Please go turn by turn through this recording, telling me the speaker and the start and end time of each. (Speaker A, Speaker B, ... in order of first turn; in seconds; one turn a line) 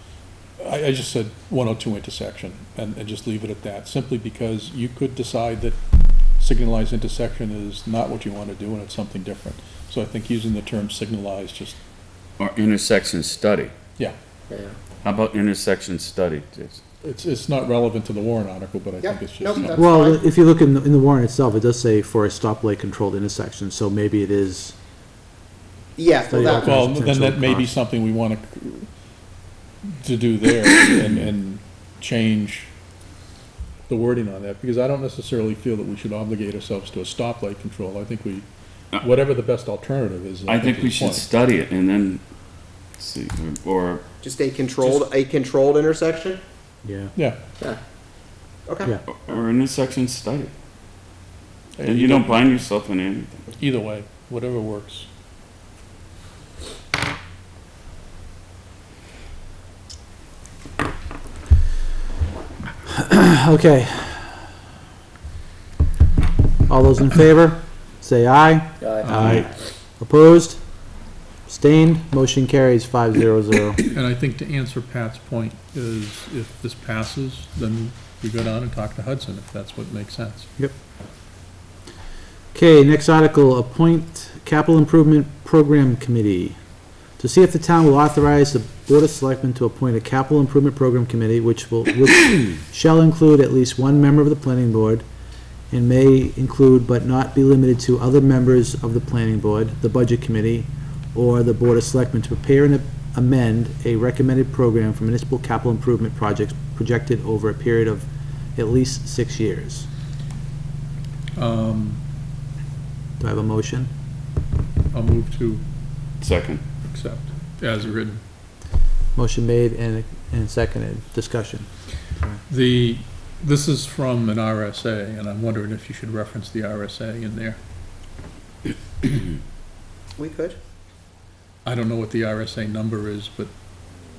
Speaker A: 0.6-5.8
Speaker A: 6.4-11.8
Speaker B: 12.4-13.7
Speaker B: 15.0-16.8
Speaker A: 17.0-19.8
Speaker C: 19.0-20.2
Speaker D: 19.7-24.7
Speaker C: 26.0-26.7
Speaker D: 26.3-27.7
Speaker A: 26.3-28.9
Speaker A: 29.9-32.7
Speaker A: 33.9-41.2
Speaker B: 40.5-42.2
Speaker B: 43.0-44.0
Speaker C: 44.2-46.4
Speaker A: 44.8-45.1
Speaker D: 46.8-47.1
Speaker A: 47.1-47.4
Speaker C: 48.6-48.9
Speaker B: 49.1-50.5
Speaker A: 51.8-52.4
Speaker B: 51.8-53.4
Speaker A: 53.5-55.1
Speaker D: 62.9-64.4
Speaker D: 66.7-70.6
Speaker A: 69.1-69.4
Speaker D: 71.5-73.8
Speaker A: 73.9-80.5
Speaker D: 82.5-86.5
Speaker D: 87.2-95.0
Speaker D: 95.7-109.9
Speaker A: 111.3-112.0
Speaker D: 113.2-113.9
Speaker A: 114.9-115.6
Speaker B: 116.2-116.6
Speaker A: 116.8-118.2
Speaker D: 119.1-121.7
Speaker A: 122.5-127.6
Speaker C: 130.2-130.6
Speaker A: 131.6-133.5